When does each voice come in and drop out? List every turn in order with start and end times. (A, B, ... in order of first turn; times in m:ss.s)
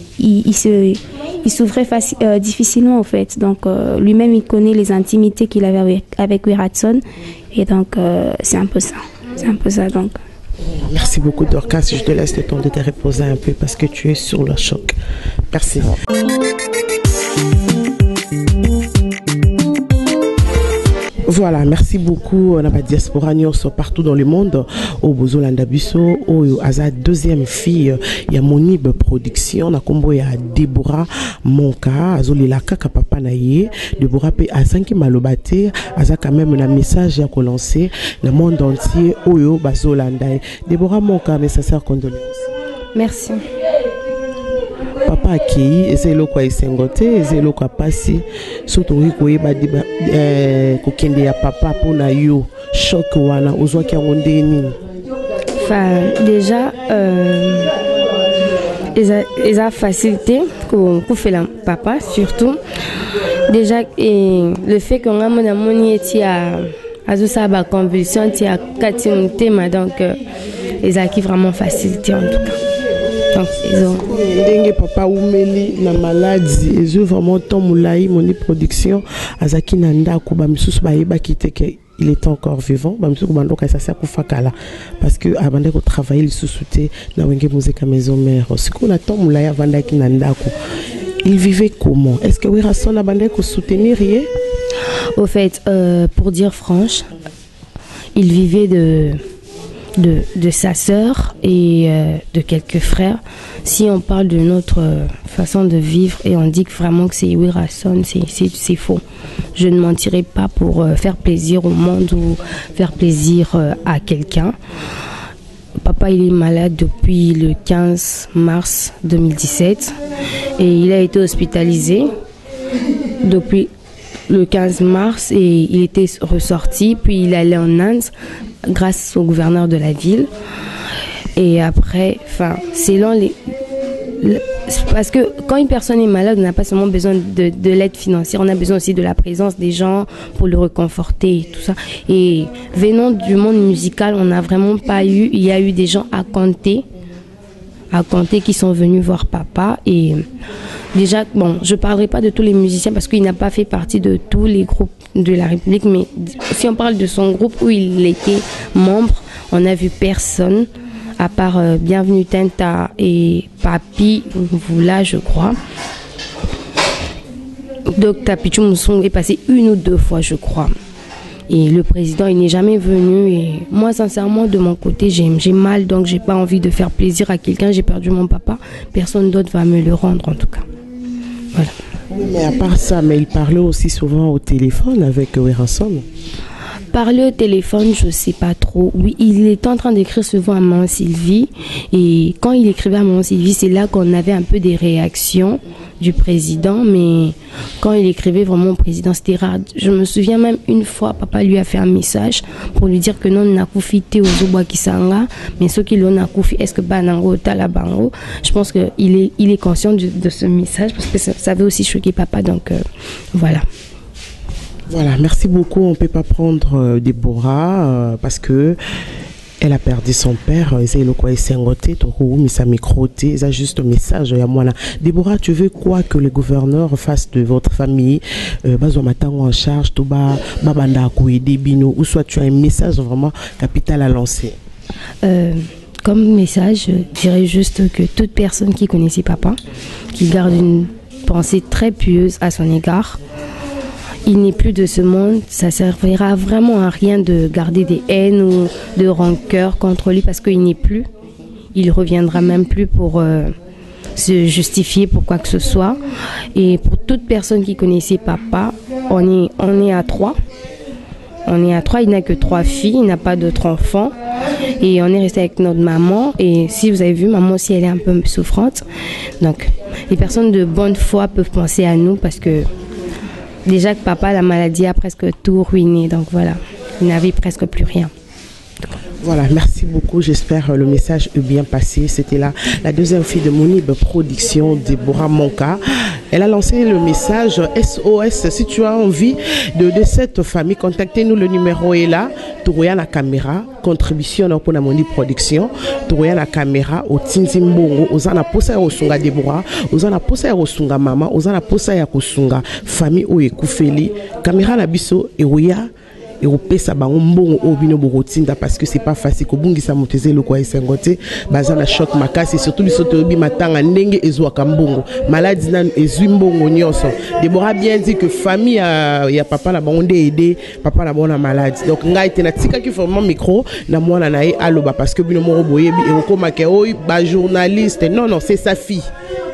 0:00.2-0:10.2 A
0:10.7-0:15.0 B
0:15.5-0:16.0 B
0:21.3-0:42.5 B
0:43.0-0:43.5 C
0:45.0-0:54.8 B
0:55.6-0:57.7 C
0:58.9-1:02.6 C
1:03.5-1:10.2 C
1:10.8-1:12.6 C
1:13.3-1:14.0 C
1:14.0-1:30.5 B
1:31.2-1:34.3 B
1:35.2-1:37.1 C
1:38.2-1:39.2 C
1:40.0-1:49.0 C
1:49.6-1:54.6 C
1:55.8-2:00.0 C
2:00.6-2:02.1 C
2:03.2-2:03.7 C
2:04.3-2:08.1 C
2:08.7-2:10.3 C
2:11.4-2:13.4 C
2:14.2-2:26.9 C
2:27.9-2:30.2 C
2:30.9-2:45.6 C
2:47.9-2:50.7 C
2:51.5-3:00.7 C
3:02.1-3:06.0 B
3:06.9-3:32.8 C
3:33.3-3:33.6 C
3:34.9-3:38.8 B
3:39.6-3:54.6 B
3:55.2-3:59.6 C
4:00.1-4:03.2 C
4:04.2-4:11.1 C
4:11.7-4:13.5 C
4:14.2-4:16.0 C
4:16.6-4:20.4 C
4:21.4-4:24.2 C
4:24.8-4:28.8 C
4:29.4-4:32.7 C
4:33.7-4:38.1 C
4:39.2-5:05.9 B
5:06.4-5:29.1 B